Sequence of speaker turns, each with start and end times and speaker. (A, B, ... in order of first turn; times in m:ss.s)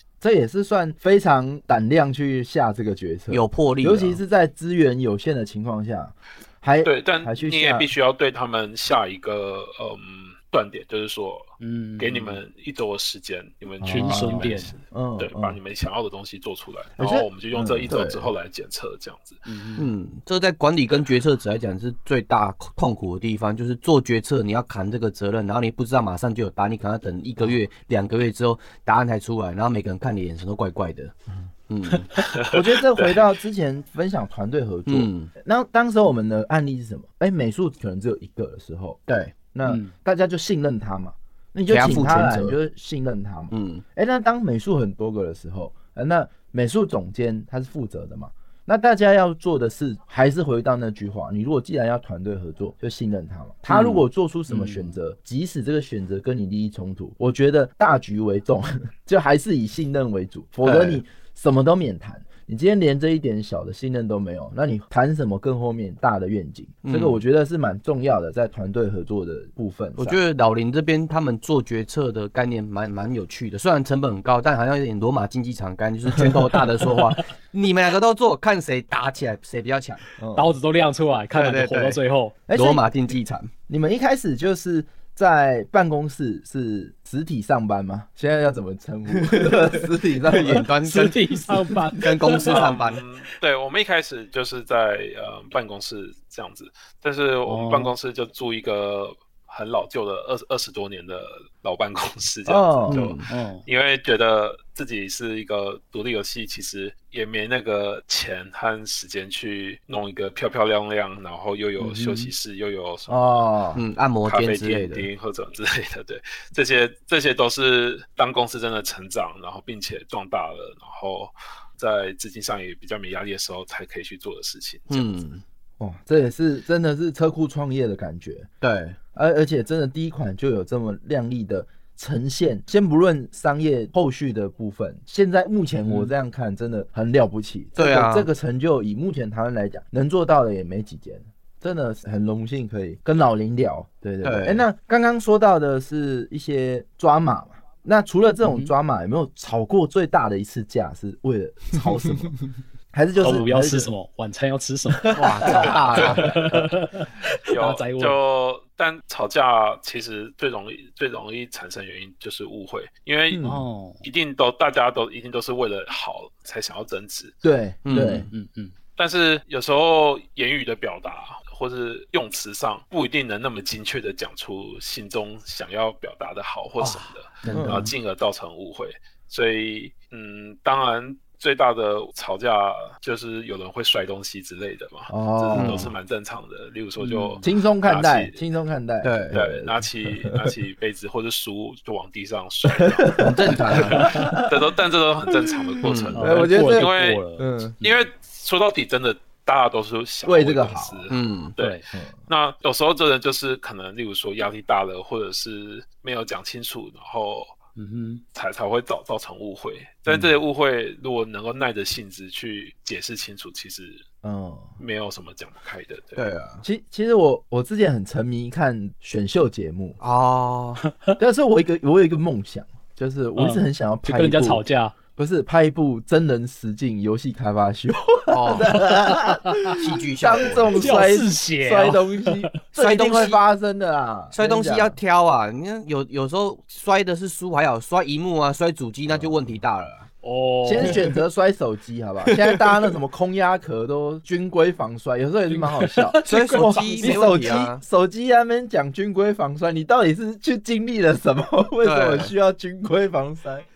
0:00.2-0:07.9 A
0:03.3-0:04.2 B
0:06.8-0:19.4 C
0:11.6-0:12.4 D
0:13.8-0:15.6 A
0:13.9-0:14.8 D
0:17.0-0:18.2 A
0:17.9-0:18.2 B
0:19.5-0:19.9 D
0:19.8-0:31.2 B
0:31.7-0:32.2 B
0:32.2-0:33.3 C
0:32.5-0:39.0 A
0:34.9-0:35.3 B
0:39.1-0:39.4 B
0:39.5-1:10.2 A
0:39.6-0:39.9 D
0:41.7-0:42.6 B
0:43.5-0:43.8 B
0:53.7-0:54.0 B
0:54.5-0:55.0 D
1:00.6-1:01.0 B
1:06.8-1:07.2 B
1:10.0-1:20.0 B
1:20.2-1:20.5 A
1:20.4-1:22.4 D
1:21.3-1:22.0 B
1:22.5-1:22.8 A
1:22.5-1:23.5 B
1:23.7-1:30.7 A
1:29.2-1:33.0 B
1:30.8-1:32.7 D
1:32.4-1:53.5 C
1:37.5-1:37.9 D
1:42.5-1:43.0 A
1:42.9-1:43.3 B
1:43.3-1:43.6 D
1:51.8-1:52.3 D
1:53.1-1:53.8 A
1:53.8-1:55.1 B
1:54.2-2:05.1 C
2:04.9-2:05.4 B
2:05.8-2:08.5 A
2:08.6-2:09.0 B
2:09.2-2:32.4 A
2:15.9-2:16.1 D
2:17.8-2:18.3 B
2:24.2-2:24.6 B
2:28.4-2:28.7 D
2:32.9-2:33.9 A
2:33.2-2:38.2 D
2:35.0-2:35.6 A
2:35.1-2:36.2 B
2:35.4-2:36.4 C
2:37.5-2:43.4 C
2:43.3-2:43.6 A
2:43.4-2:44.0 D
2:44.0-2:47.4 C
2:47.4-2:48.3 A
2:47.8-2:48.3 B
2:47.9-2:48.7 D
2:49.0-3:08.4 C
2:56.8-2:57.6 D
2:57.5-2:57.9 B
2:57.5-2:57.9 A
3:05.1-3:05.9 A
3:05.5-3:05.9 B
3:07.0-3:07.5 D
3:07.4-3:10.6 A
3:09.0-3:09.4 B
3:09.3-3:17.2 C
3:12.7-3:17.8 A
3:13.2-3:14.2 B
3:13.9-3:14.3 D
3:15.8-3:16.2 B
3:16.2-3:17.9 D
3:17.8-3:27.6 C
3:20.3-3:21.1 A
3:21.1-3:21.5 B
3:21.6-3:21.9 D
3:21.9-3:22.2 A
3:27.8-3:28.2 D
3:28.3-3:34.0 C
3:34.2-3:34.8 A
3:34.8-3:36.3 C
3:36.2-3:36.6 B
3:36.6-3:40.0 A
3:40.0-3:40.8 B
3:40.9-3:41.2 D
3:41.2-3:44.6 A
3:43.4-3:44.9 D
3:45.2-3:55.0 A
3:48.3-3:48.8 B
3:48.8-3:49.8 D
3:49.7-3:51.0 B
3:50.8-3:52.6 D
3:52.8-3:53.4 B
3:54.3-4:00.1 B
4:00.2-4:01.0 D
4:00.6-4:13.7 A
4:00.8-4:01.1 B
4:02.3-4:02.8 B
4:05.5-4:07.4 D
4:06.3-4:07.8 B
4:11.8-4:12.3 B